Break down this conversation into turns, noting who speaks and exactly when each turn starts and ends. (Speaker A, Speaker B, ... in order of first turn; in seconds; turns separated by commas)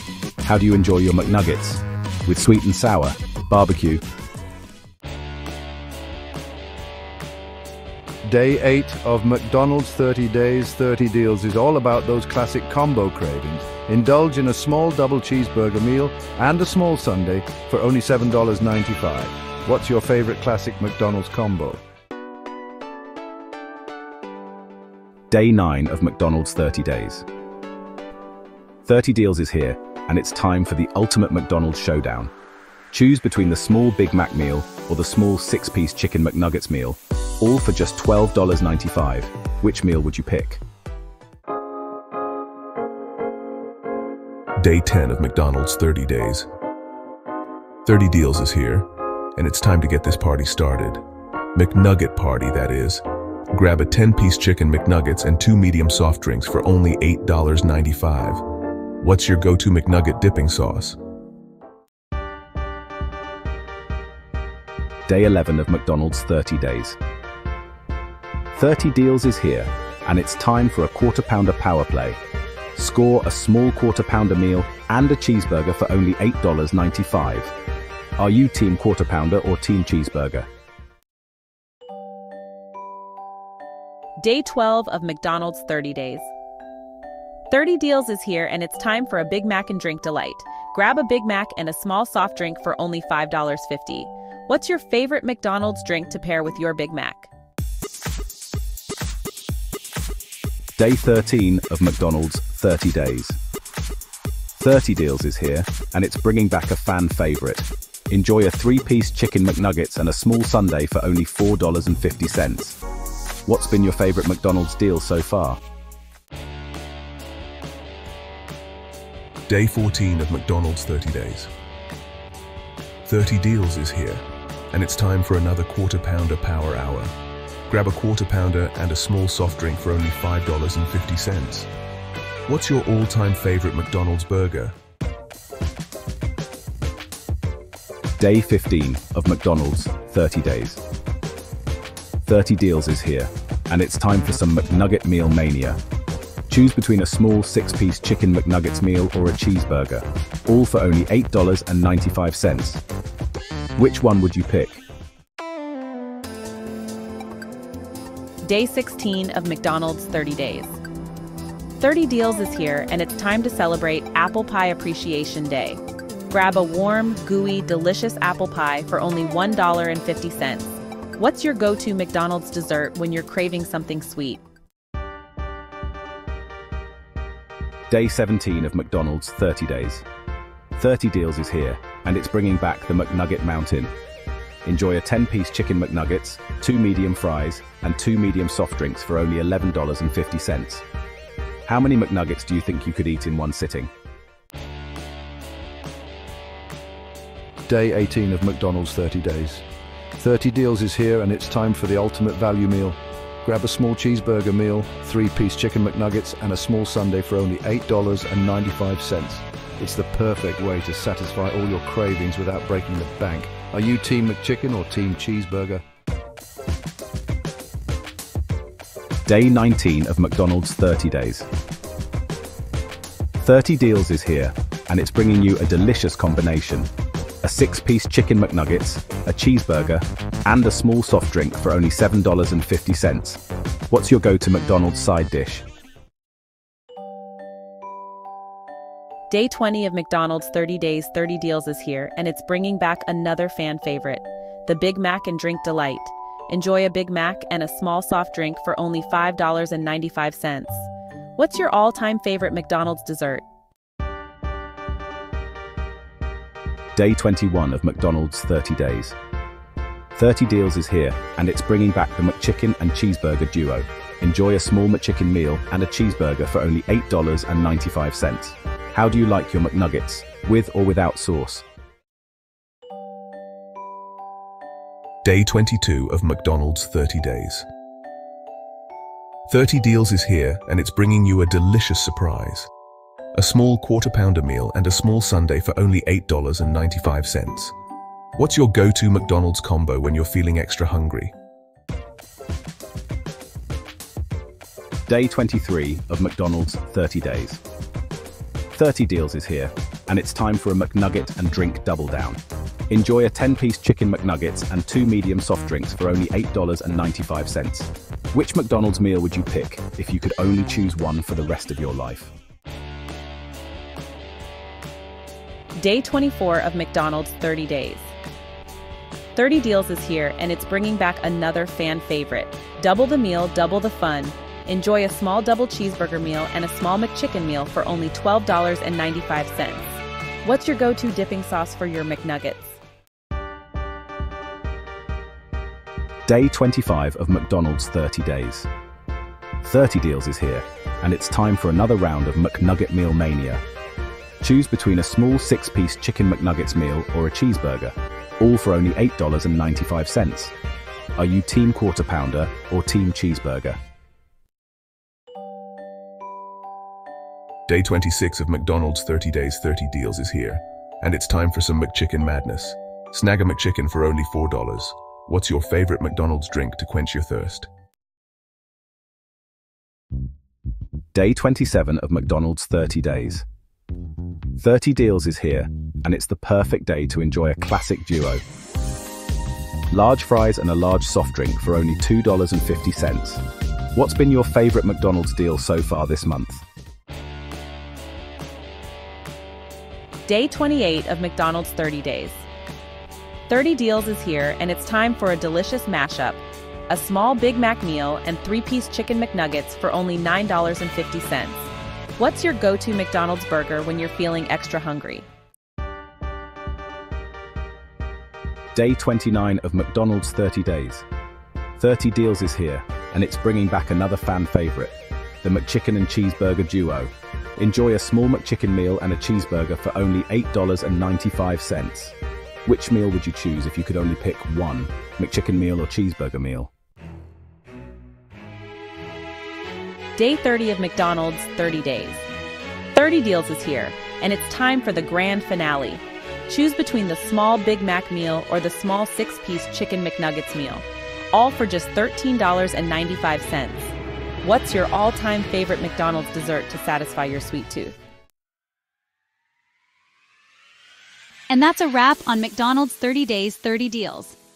Speaker A: 0.4-4.0, Speaker B: 8.2-21.8, Speaker A: 25.3-27.3, Speaker A: 28.9-32.3, Speaker A: 32.9-40.6, Speaker C: 44.6-46.5, Speaker C: 47.9-51.0, Speaker C: 51.5-58.5, Speaker C: 59.0-61.0, Speaker A: 65.1-67.0, Speaker A: 68.5-72.2, Speaker A: 72.7-77.5, Speaker A: 78.2-80.5, Speaker D: 84.2-86.3, Speaker D: 87.5-97.3, Speaker A: 100.8-103.4, Speaker A: 104.6-112.8, Speaker A: 113.5-115.6, Speaker C: 119.5-121.5, Speaker C: 123.1-127.1, Speaker C: 127.7-131.7, Speaker C: 132.5-134.8, Speaker A: 138.2-140.8, Speaker A: 142.2-145.8, Speaker A: 146.5-152.8, Speaker A: 153.8-154.8, Speaker D: 158.4-160.8, Speaker D: 161.8-174.4, Speaker A: 177.9-180.1, Speaker A: 180.8-183.9, Speaker A: 184.6-190.8, Speaker A: 191.7-193.9, Speaker B: 197.7-199.6, Speaker B: 200.2-215.8, Speaker A: 219.3-221.5, Speaker A: 223.4-226.9, Speaker A: 227.4-235.7, Speaker D: 239.3-253.4, Speaker A: 256.9-259.2, Speaker A: 260.1-271.6, Speaker C: 275.2-277.7, Speaker C: 279.5-282.7, Speaker C: 283.4-287.8, Speaker C: 288.4-291.3, Speaker A: 295.1-297.6, Speaker A: 298.7-312.3, Speaker D: 315.8-318.1, Speaker D: 319.4-332.8, Speaker A: 336.3-338.7, Speaker A: 339.6-343.6, Speaker A: 344.4-350.5, Speaker A: 351.2-353.8, Speaker C: 357.7-367.7, Speaker A: 371.1-373.5, Speaker A: 374.6-378.4, Speaker A: 379.9-386.6, Speaker D: 390.3-392.4, Speaker D: 393.5-405.3, Speaker A: 408.8-411.1, Speaker A: 411.8-426.7, Speaker D: 430.1-432.3, Speaker D: 432.9-448.0, Speaker E: 451.5-454.4